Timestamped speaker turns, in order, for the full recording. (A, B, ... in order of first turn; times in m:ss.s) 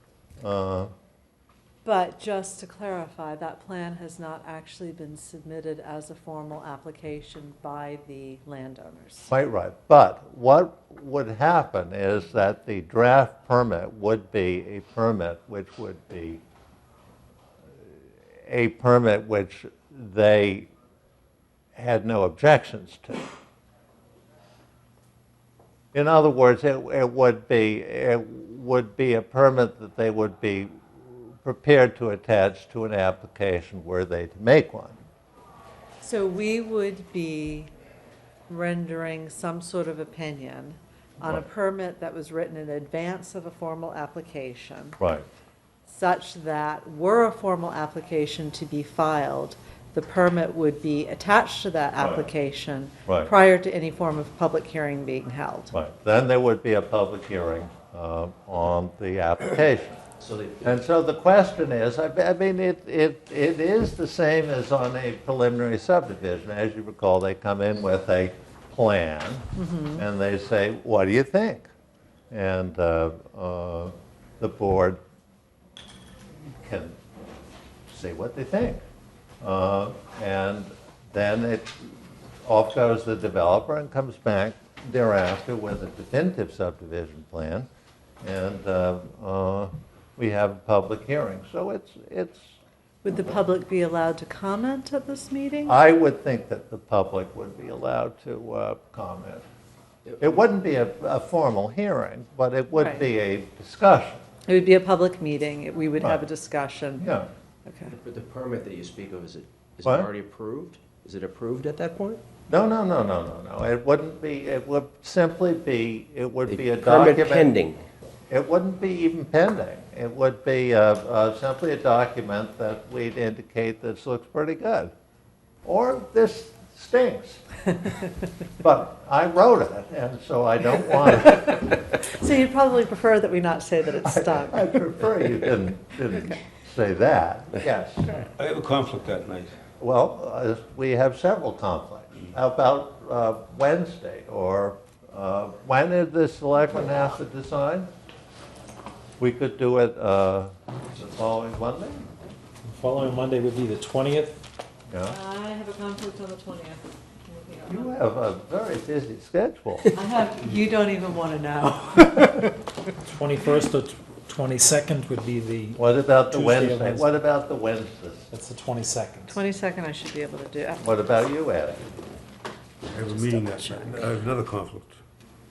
0:00.4-0:00.9 A
0:01.8-0:09.3 B
0:09.3-0:16.4 A
0:18.4-0:20.7 A
0:21.8-0:23.2 A
0:25.9-0:35.0 A
0:36.0-0:37.7 B
0:38.5-0:45.0 B
0:45.0-0:45.2 A
0:45.9-0:55.7 B
0:52.0-0:52.3 A
0:53.0-0:53.3 A
0:55.7-1:00.0 A
1:00.2-1:00.7 C
1:00.6-1:11.7 A
1:09.5-1:10.0 B
1:12.3-1:15.0 A
1:16.5-1:17.0 A
1:17.9-1:18.8 A
1:19.4-1:27.7 A
1:28.2-1:32.5 A
1:33.0-1:35.8 B
1:35.6-1:39.4 A
1:40.2-1:44.2 A
1:42.7-1:43.1 B
1:44.5-1:47.1 B
1:46.0-1:46.2 A
1:47.0-1:47.3 A
1:47.6-1:47.9 B
1:47.9-1:52.2 C
1:49.8-1:50.1 A
1:52.5-1:57.5 A
1:56.5-1:57.8 C
1:58.3-2:04.9 A
2:05.6-2:07.4 A
2:08.6-2:11.6 A
2:12.0-2:14.7 B
2:14.0-2:18.2 A
2:18.4-2:19.5 D
2:19.8-2:27.9 A
2:29.2-2:32.1 A
2:32.6-2:34.4 E
2:34.9-2:35.2 A
2:35.0-2:38.0 B
2:37.7-2:39.9 A
2:39.9-2:42.5 B
2:43.1-2:47.1 E
2:45.8-2:48.3 A
2:48.3-2:49.3 E
2:49.3-2:51.2 B
2:50.8-2:51.9 A
2:52.9-2:55.0 D
2:53.1-2:54.1 B